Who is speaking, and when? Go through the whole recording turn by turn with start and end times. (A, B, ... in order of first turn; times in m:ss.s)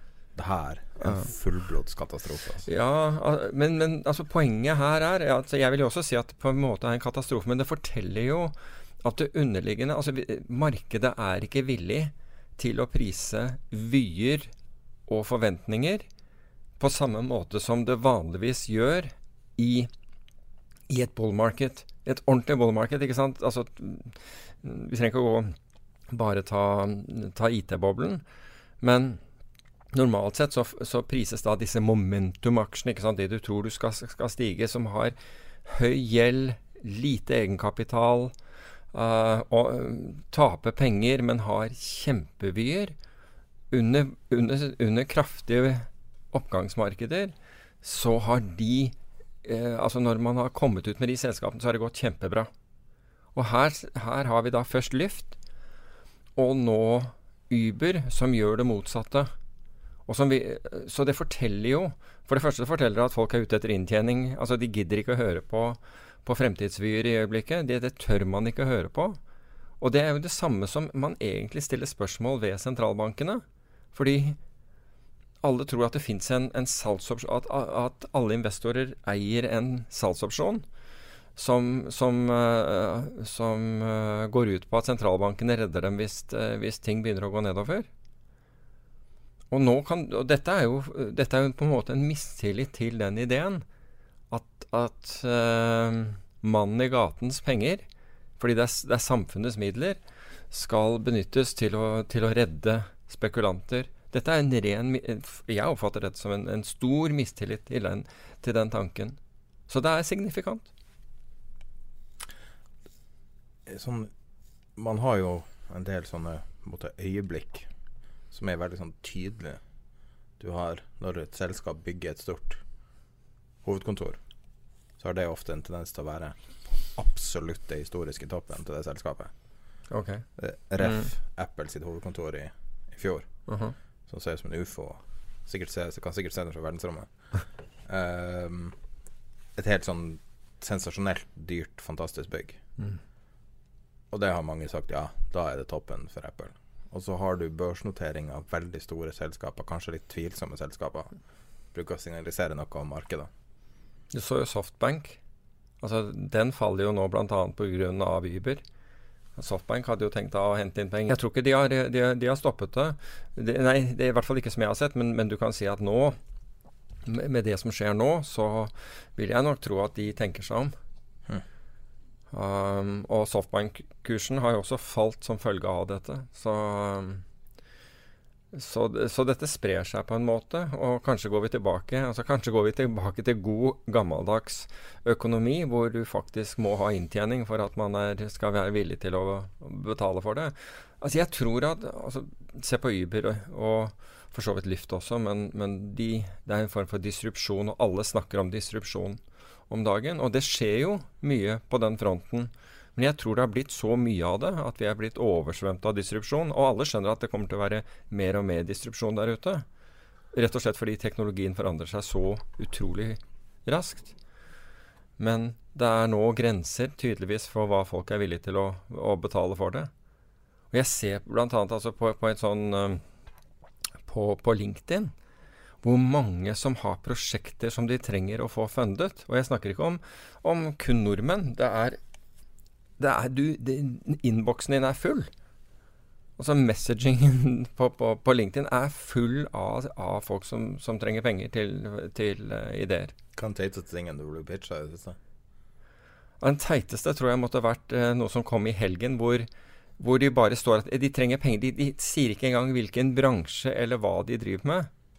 0:00.4-0:02.7 A
0:01.0-0:01.3 B
0:02.6-0:14.5 B
0:15.1-0:16.1 B
0:16.8-0:19.9 B
0:20.9-0:25.5 B
0:26.1-0:28.2 B
0:28.8-0:29.2 B
0:29.9-0:38.3 B
0:38.9-0:42.9 B
0:43.7-0:52.5 B
0:53.3-0:55.4 B
0:56.4-0:59.3 B
1:00.1-1:09.2 B
1:09.8-1:14.4 B
1:15.4-1:20.6 B
1:21.4-1:27.9 B
1:29.5-1:33.6 B
1:34.3-1:37.8 B
1:38.4-1:49.2 B
1:49.7-1:50.7 B
1:53.6-1:54.1 A
1:54.8-1:57.7 A
1:58.3-1:59.6 A
2:00.4-2:02.6 A
2:03.6-2:04.2 A
2:05.0-2:09.3 A
2:09.9-2:10.2 B
2:10.4-2:13.3 A
2:10.8-2:11.1 B
2:13.5-2:13.7 B
2:14.1-2:17.1 A
2:17.8-2:18.8 A
2:19.5-2:22.6 A
2:24.1-2:31.1 A
2:31.7-2:33.3 A
2:34.1-2:35.2 B
2:35.8-2:38.6 B
2:39.4-2:46.2 B
2:47.0-2:50.7 B
2:52.3-2:57.2 B
2:58.5-3:29.6 B
3:30.3-3:34.2 B
3:35.2-3:39.9 B
3:40.7-3:43.0 B
3:44.0-3:45.1 B
3:45.8-3:52.0 B
3:53.0-3:55.3 B
3:56.4-4:03.1 B
4:03.3-4:05.2 A
4:06.4-4:09.5 B
4:10.0-4:14.9 B